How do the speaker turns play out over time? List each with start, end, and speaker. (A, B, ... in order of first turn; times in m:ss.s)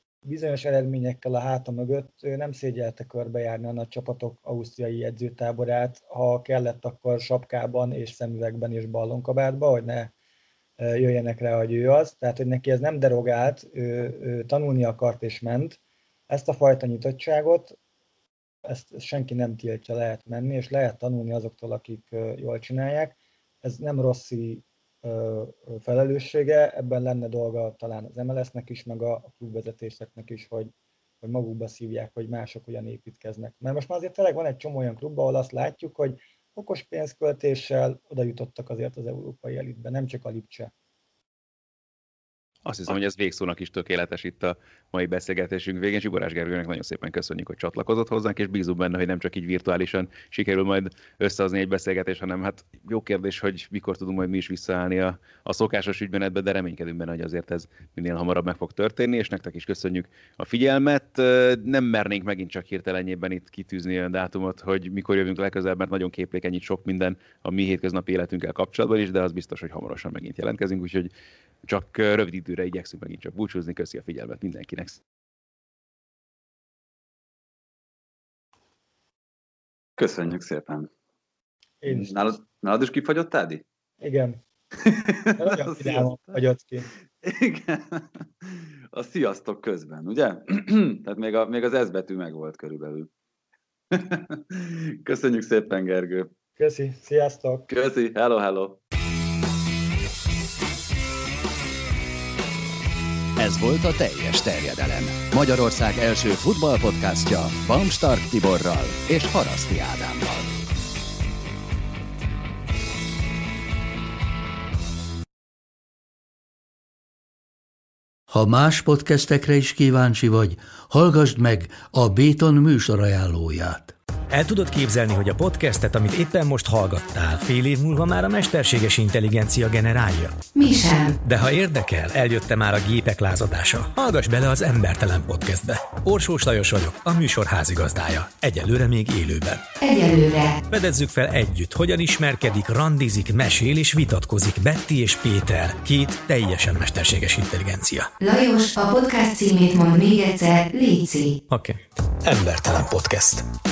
0:00.2-0:10.1 A
0:10.8-0:17.8 A
0:18.6-0:30.7 A
0:31.2-0:40.7 A
0:42.7-1:11.1 B
1:11.6-1:15.0 B
1:20.0-1:20.9 C
1:21.8-1:22.4 A
1:21.9-1:23.6 C
1:24.0-1:24.4 A
1:24.8-1:26.4 C
1:25.4-1:26.9 A
1:27.2-1:33.1 C
1:33.9-1:36.3 C
1:36.6-1:37.7 A
1:37.7-1:38.8 C
1:43.4-1:50.6 D
1:58.3-2:03.9 E
2:04.3-2:10.4 F
2:10.6-2:11.2 G
2:11.2-2:19.7 F
2:19.8-2:20.6 G
2:20.7-2:28.1 F
2:28.2-2:31.4 G
2:31.5-2:33.5 F